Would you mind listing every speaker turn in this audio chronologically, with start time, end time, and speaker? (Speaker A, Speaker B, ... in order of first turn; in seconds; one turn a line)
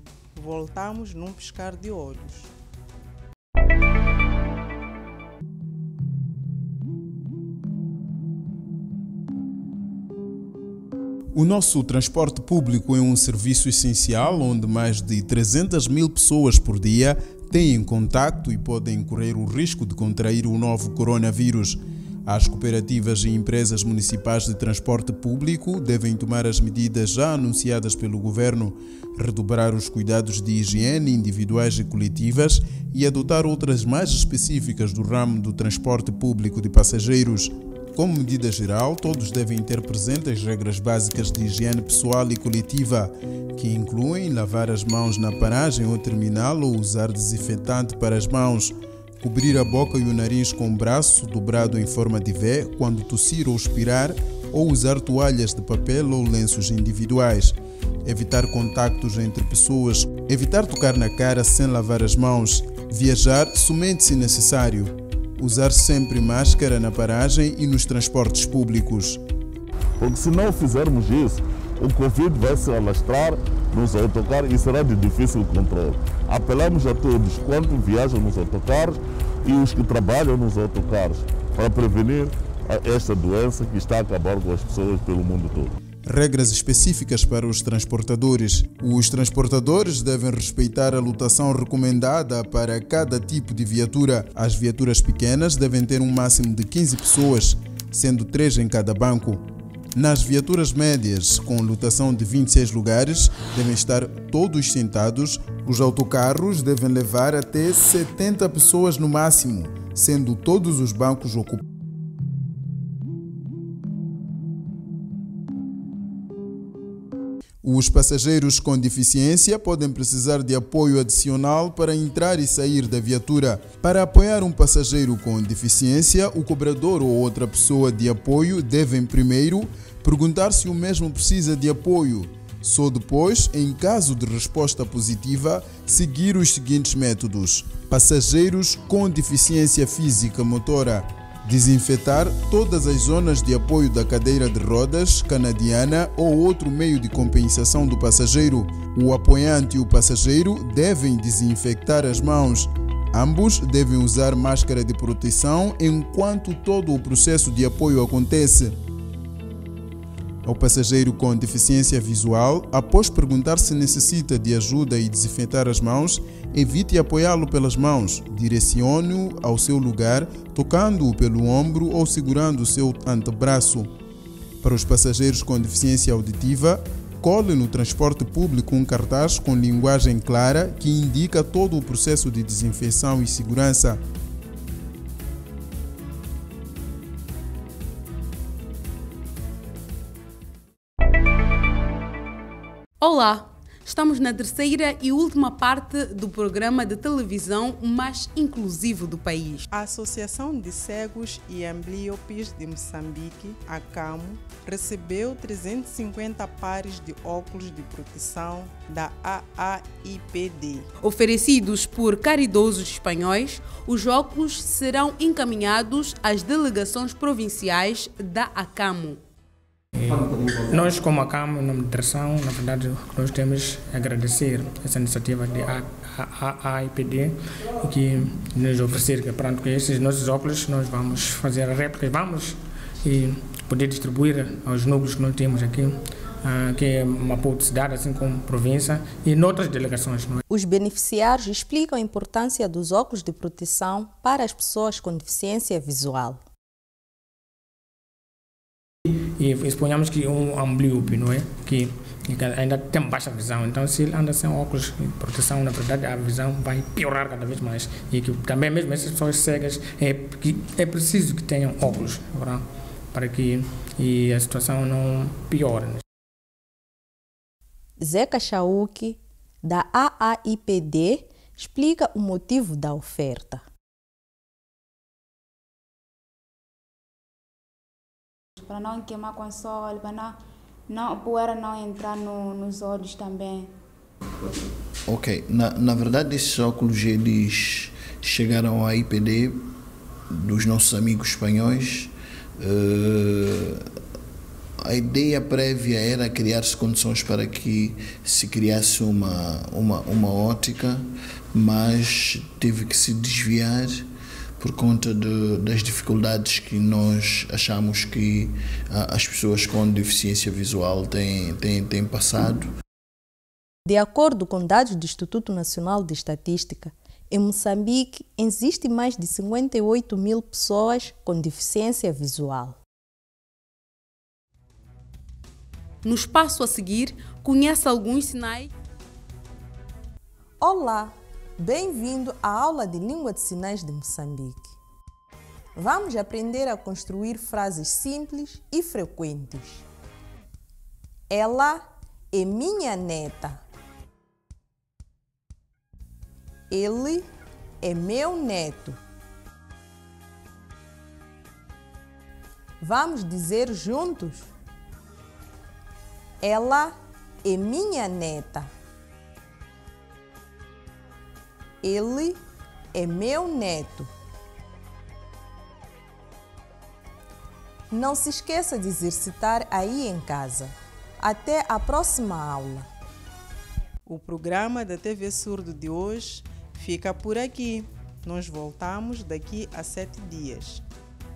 Speaker A: 0.3-2.5
Speaker B: 11.3-69.2
Speaker C: 70.0-85.7
Speaker B: 86.0-111.6
Speaker B: 117.6-158.8
Speaker B: 160.4-173.9
Speaker B: 174.6-184.0
Speaker D: 193.0-199.7
Speaker A: 199.7-210.9
Speaker D: 211.0-219.2
Speaker E: 219.9-240.4
Speaker F: 240.5-246.4
Speaker E: 249.2-266.0
Speaker F: 268.0-273.6
Speaker G: 278.6-283.7
Speaker H: 285.1-289.6
Speaker H: 290.3-293.9
Speaker H: 294.8-304.1
Speaker H: 304.6-312.7
Speaker F: 313.9-322.8
Speaker D: 326.0-328.7
Speaker F: 330.6-334.8
Speaker F: 335.8-339.9
Speaker F: 341.3-343.6
Speaker F: 346.7-347.3
Speaker F: 347.8-349.0
Speaker F: 352.8-354.5
Speaker F: 356.4-358.7
Speaker F: 361.8-362.4
Speaker F: 362.9-364.1
Speaker F: 367.9-372.9
Speaker A: 374.1-380.8